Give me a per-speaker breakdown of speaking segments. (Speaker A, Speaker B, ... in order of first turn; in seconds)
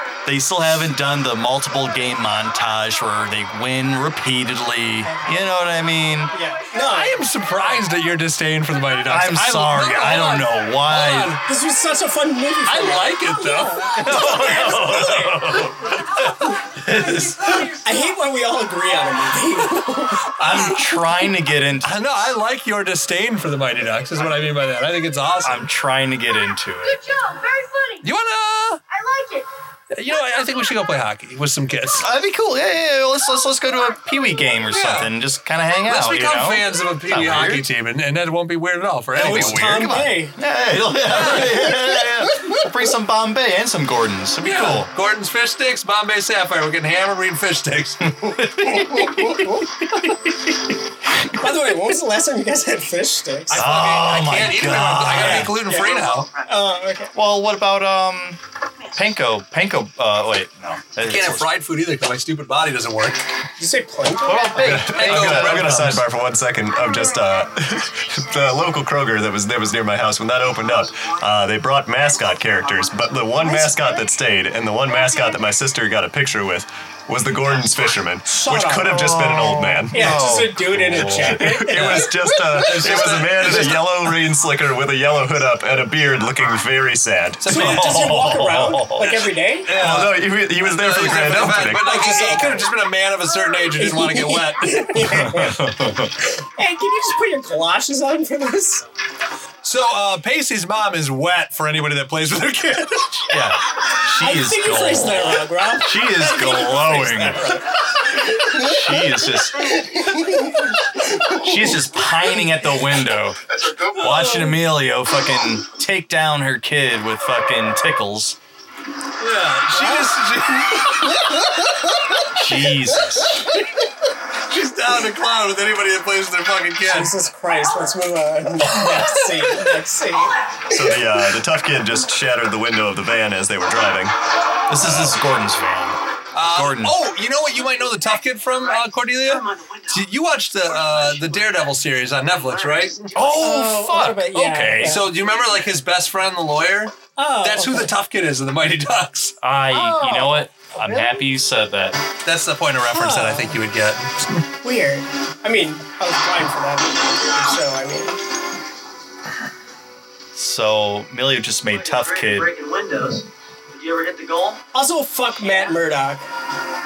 Speaker A: 0.2-6.3, 9.1-11.4, 14.0-17.8, 20.4-22.1, 25.4-27.0, 32.0-37.7, 39.1-44.9, 48.0-49.7, 51.1-51.8, 53.5-55.6, 57.1-58.4, 59.0-61.6, 64.2-66.0, 78.8-81.7, 87.5-89.3, 94.9-96.2, 103.3-107.6, 108.4-110.1, 111.3-113.4, 113.9-118.4, 122.3-123.5, 134.7-137.0, 143.1-145.0, 149.4-152.0, 160.3-162.5
Speaker B: 5.1-5.3, 6.3-7.2, 11.4-15.7, 17.8-20.3, 39.2-40.4, 41.3-42.7, 51.4-53.7, 55.1-57.1, 63.6-64.6, 78.2-79.2, 79.9-82.7, 87.5-89.7, 91.7-92.7, 93.7-95.7, 96.4-98.8, 104.2-111.8, 114.2-114.5, 119.7-120.2, 126.9-130.9, 143.4-145.1, 147.2-147.9, 149.7-151.2, 152.9-153.6, 154.6-158.2, 164.7-166.3
Speaker C: 6.8-11.4, 12.7-14.2, 20.5-20.8, 21.8-25.7, 28.0-28.8, 29.9-32.1, 34.7-35.1, 35.8-39.7, 41.0-41.6, 44.4-48.0, 53.5-56.3, 61.0-63.2, 64.6-66.0, 81.8-83.8, 87.4-88.2, 89.7-94.9, 99.6-103.3, 119.2-121.4, 124.5-127.2, 128.9-129.8, 136.3-143.2, 144.8-149.4, 152.2-154.4
Speaker D: 14.3-14.8, 15.8-18.3, 26.8-28.1, 28.9-29.5, 30.1-30.7, 33.3-34.7, 66.7-68.7
Speaker E: 55.6-56.8, 58.8-59.2, 70.4-73.4, 74.9-75.4, 77.4-78.1, 109.5-110.5, 137.6-143.7, 145.1-145.7, 161.7-164.7, 165.3-165.8
Speaker F: 64.6-80.2, 80.9-87.5, 89.7-92.2, 130.7-134.2